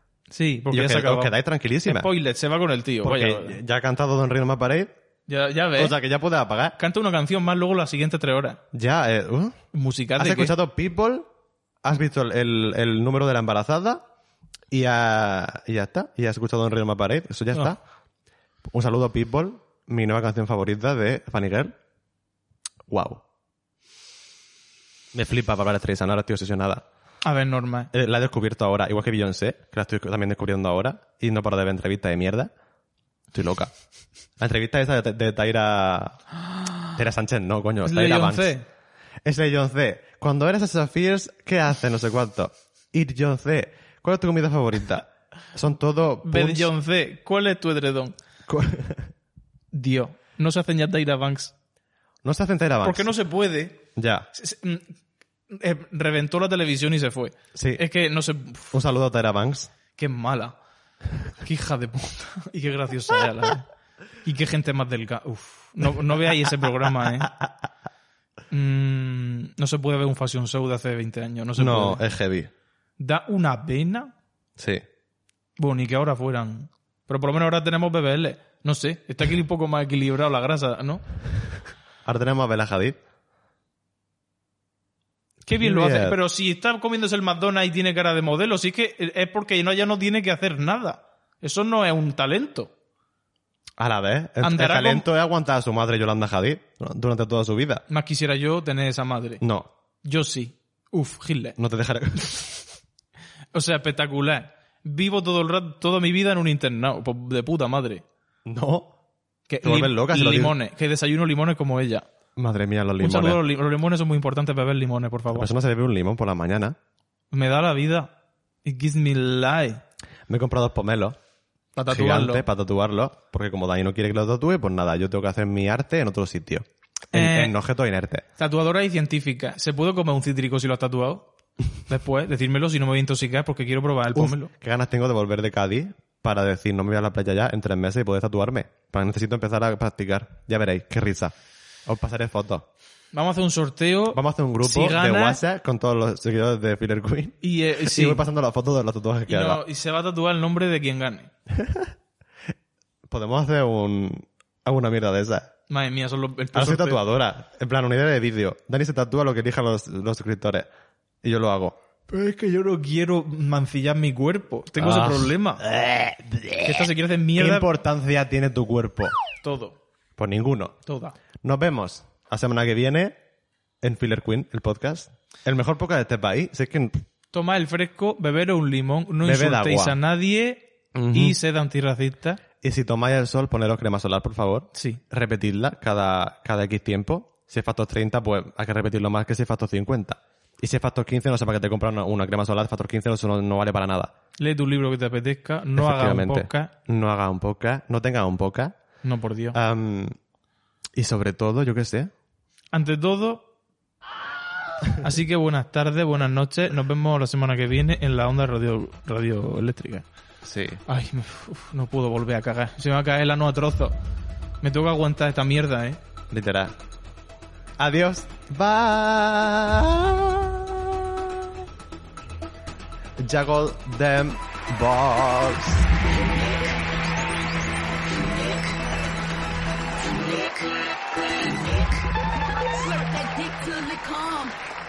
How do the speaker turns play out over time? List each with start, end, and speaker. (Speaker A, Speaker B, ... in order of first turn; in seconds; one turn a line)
Speaker A: 0.3-3.6
Speaker B: 0.7-2.1
Speaker B: 3.0-4.9
Speaker A: 5.3-6.0
Speaker B: 5.8-6.8
Speaker A: 6.8-8.6
Speaker B: 8.7-9.6
Speaker A: 9.7-10.6
Speaker B: 10.2-11.3
Speaker B: 11.8-14.0
Speaker B: 14.7-17.8
Speaker B: 18.7-21.8
Speaker B: 22.9-23.2
Speaker B: 25.1-26.8
Speaker A: 27.2-27.9
Speaker B: 27.9-32.5
Speaker B: 33.3-33.7
Speaker B: 34.4-36.2
Speaker B: 37.0-38.6
Speaker A: 37.8-38.7
Speaker B: 39.2-46.7
Speaker A: 46.2-48.1
Speaker B: 48.5-49.1
Speaker A: 49.7-51.5
Speaker B: 52.2-53.1
Speaker A: 52.8-53.8
Speaker B: 54.0-54.3
Speaker A: 54.3-54.9
Speaker A: 55.5-58.8
Speaker B: 57.5-57.8
Speaker B: 58.7-59.7
Speaker A: 60.0-60.6
Speaker A: 61.4-63.7
Speaker A: 64.2-67.3
Speaker B: 67.2-67.5
Speaker A: 68.5-72.0
Speaker B: 71.6-72.5
Speaker A: 73.0-74.1
Speaker B: 74.6-74.8
Speaker A: 75.6-81.0
Speaker B: 82.0-83.0
Speaker A: 85.5-92.7
Speaker B: 85.6-86.2
Speaker B: 93.8-97.8
Speaker A: 94.4-95.1
Speaker A: 97.9-99.4
Speaker B: 99.4-99.7
Speaker A: 100.0-101.6
Speaker B: 101.6-102.7
Speaker A: 103.5-108.0
Speaker B: 108.5-108.9
Speaker A: 109.5-112.1
Speaker B: 109.6-110.6
Speaker B: 112.4-113.4
Speaker A: 113.0-115.5
Speaker B: 115.3-116.8
Speaker A: 117.3-118.1
Speaker A: 118.7-119.8
Speaker B: 120.3-121.2
Speaker A: 121.8-122.5
Speaker B: 121.9-128.2
Speaker A: 127.1-127.5
Speaker A: 128.4-134.5
Speaker B: 134.1-141.3
Speaker B: 141.9-142.7
Speaker A: 143.1-145.4
Speaker B: 144.1-149.6
Speaker A: 147.4-148.2
Speaker A: 149.3-151.3
Speaker B: 151.5-151.9
Speaker B: 153.1-155.5
Speaker A: 155.7-157.0
Speaker B: 156.5-160.7
Speaker B: 161.2-161.8
Speaker A: 162.1-165.7
Speaker B: 164.8-169.1
Speaker A: 166.6-167.7
Speaker A: 169.4-169.8
Speaker B: 170.2-170.8
Speaker A: 170.9-171.2
Speaker B: 171.4-173.2
Speaker B: 173.8-177.0
Speaker A: 177.3-182.4
Speaker B: 179.2-180.0
Speaker B: 180.9-181.4
Speaker B: 182.6-194.1
Speaker A: 184.7-185.0
Speaker A: 194.4-196.7
Speaker B: 195.8-198.7
Speaker A: 199.0-199.6
Speaker B: 199.5-200.2
Speaker B: 201.0-202.1
Speaker A: 202.7-203.5
Speaker A: 204.9-210.1
Speaker B: 210.4-210.8
Speaker A: 210.9-214.0
Speaker A: 214.6-216.0
Speaker B: 216.3-216.8
Speaker B: 217.8-221.6
Speaker B: 223.2-225.9
Speaker C: 226.3-226.6
Speaker C: 228.3-228.6
Speaker C: 230.0-234.6